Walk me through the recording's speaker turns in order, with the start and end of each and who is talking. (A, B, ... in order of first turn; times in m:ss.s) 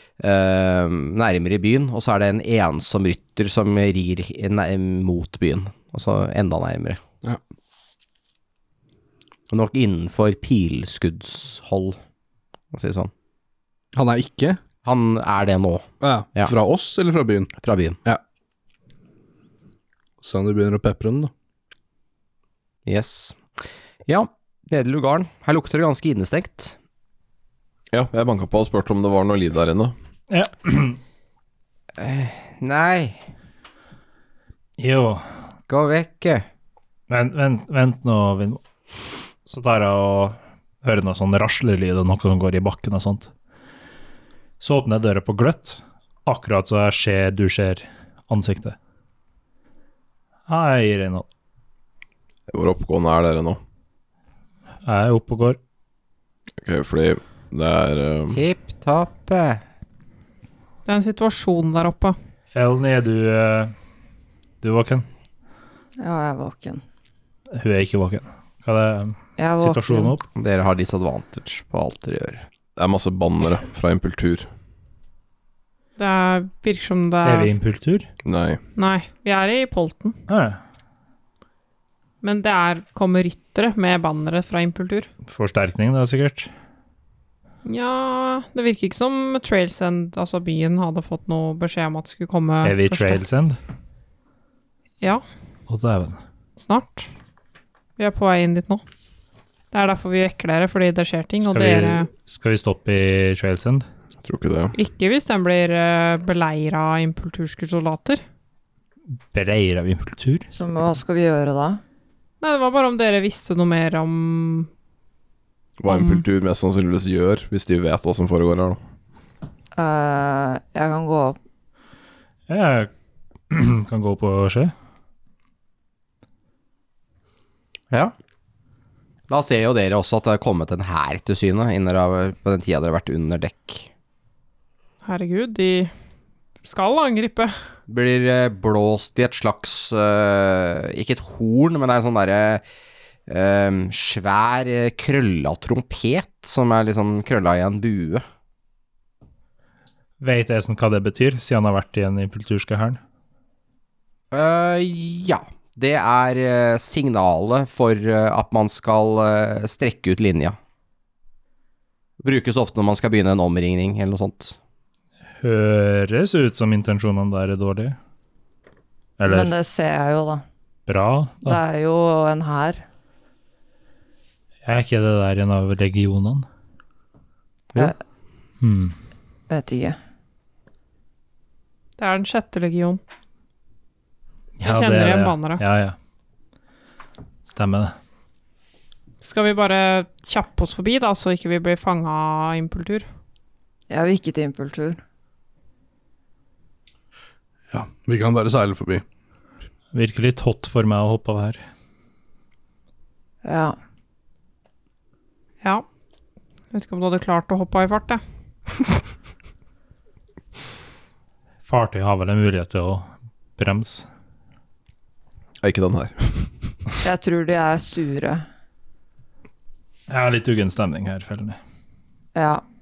0:00.2-0:07.0 A
0:09.5-0:12.0 A
0:12.7-0:13.1 A
0:13.9-0:14.6 B
0:14.8-0:16.5 A
0:16.0-0:17.5 B
0:17.6-0:18.0 A
0:20.2-0:21.3 B
0:22.8-0:23.5 A
0:24.0-0:26.8 A
0:27.9-0:29.9 C
0:30.3-0:31.0 D
0:32.0-0:33.3 A
0:34.8-0:35.3 D
0:35.7-0:36.5 A
0:37.1-0:38.6 D
0:39.4-0:43.3 D
0:44.6-0:48.8 D
0:50.5-0:51.2 D
0:52.5-0:53.6 C
0:54.8-0:55.6 D
0:56.6-0:58.4 C
0:58.3-0:59.6 A
1:00.8-1:02.2 E
1:02.5-1:03.7 D
1:04.6-1:05.1 D
1:06.0-1:06.8 F
1:07.5-1:10.2 D
1:09.4-1:10.1 F
1:10.4-1:12.4 A
1:12.8-1:14.5 C
1:16.0-1:17.5 E
1:17.2-1:18.1 D
1:18.2-1:18.6 C
1:18.8-1:20.2 E
1:20.3-1:20.6 D
1:22.2-1:25.1 E
1:25.2-1:26.5 D
1:27.6-1:33.2 E
1:32.6-1:33.6 D
1:35.7-1:36.2 D
1:36.6-1:37.1 E
1:38.0-1:38.8 E
1:39.7-1:42.1 E
1:41.4-1:43.8 D
1:44.2-1:44.7 C
1:44.7-1:48.2 E
1:49.3-1:50.5 D
1:50.5-1:51.8 F
1:52.4-1:54.7 E
1:55.8-1:58.8 C
1:55.9-1:56.2 E
1:59.8-2:01.4 F
2:02.5-2:02.9 D
2:03.5-2:04.7 D
2:09.3-2:13.9 A
2:15.0-2:15.9 E
2:16.6-2:17.5 E
2:17.9-2:22.6 A
2:23.3-2:28.2 A
2:30.2-2:33.0 D
2:34.3-2:40.6 A
2:42.2-2:44.6 A
2:45.4-2:48.0 D
2:49.2-2:49.5 D
2:49.2-2:50.4 F
2:50.9-2:51.6 D
2:51.4-2:52.8 F
2:54.6-2:56.4 D
2:58.6-2:59.0 D
2:59.5-3:00.0 F
3:02.0-3:03.0 E
3:04.6-3:06.0 D
3:04.6-3:05.6 E
3:07.4-3:07.9 D
3:09.2-3:13.1 E
3:13.9-3:15.0 F
3:17.7-3:19.0 B
3:19.9-3:21.6 D
3:23.4-3:23.8 F
3:26.7-3:28.2 E
3:31.6-3:34.1 D
3:35.6-3:36.9 C
3:37.0-3:38.4 F
3:40.1-3:41.6 D
3:42.3-3:42.6 F